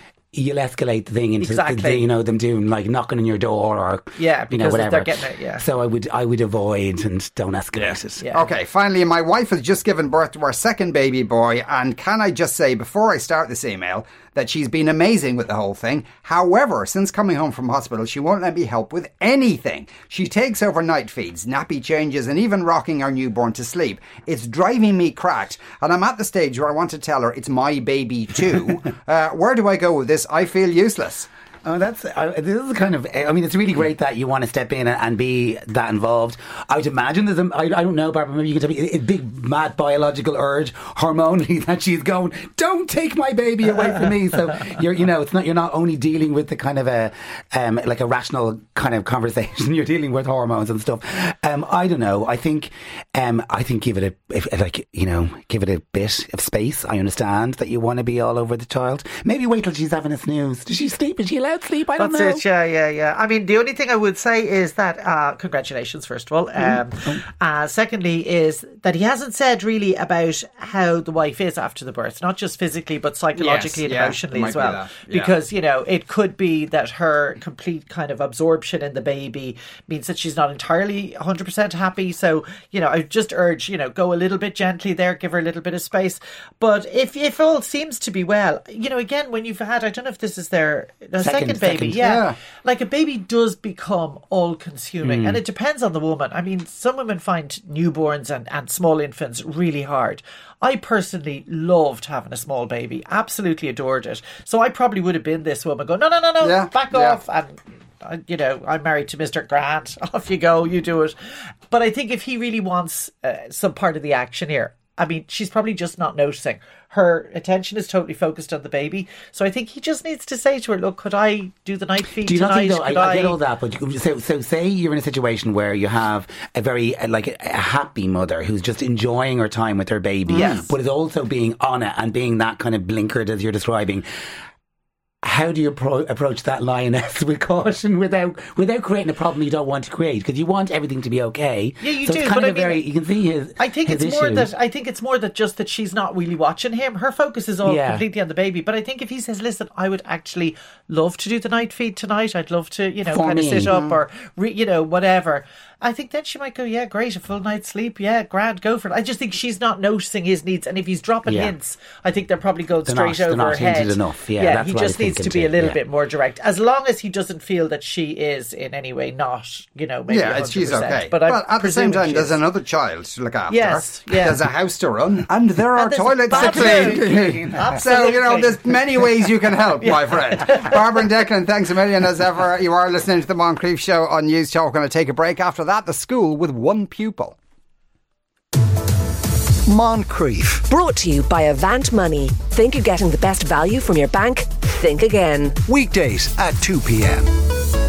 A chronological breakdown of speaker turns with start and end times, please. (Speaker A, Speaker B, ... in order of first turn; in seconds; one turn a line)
Speaker A: 0.3-8.2
Speaker B: 1.4-2.1
Speaker B: 4.2-5.6
Speaker C: 7.8-31.3
Speaker B: 8.2-8.5
Speaker A: 31.6-62.4
Speaker B: 62.0-111.2
Speaker C: 73.3-75.3
Speaker A: 91.2-92.0
Speaker C: 92.0-92.4
Speaker A: 95.0-95.4
Speaker C: 106.4-107.2
Speaker B: 111.7-123.4
Speaker A: 122.2-134.0
Speaker B: 130.3-130.7
Speaker A: 135.2-144.5
Speaker B: 141.8-142.8
Speaker B: 143.6-172.4
Speaker A: 147.6-148.0
Speaker A: 153.1-153.8
Speaker C: 153.7-154.0
Speaker A: 161.3-161.5
Speaker A: 162.8-165.8
Speaker C: 170.1-187.4
Speaker B: 173.5-174.4
Speaker B: 175.8-178.6
Speaker A: 176.3-177.3
Speaker B: 179.8-180.8
Speaker D: 189.7-190.7
Speaker E: 190.7-195.6
Speaker D: 195.7-197.3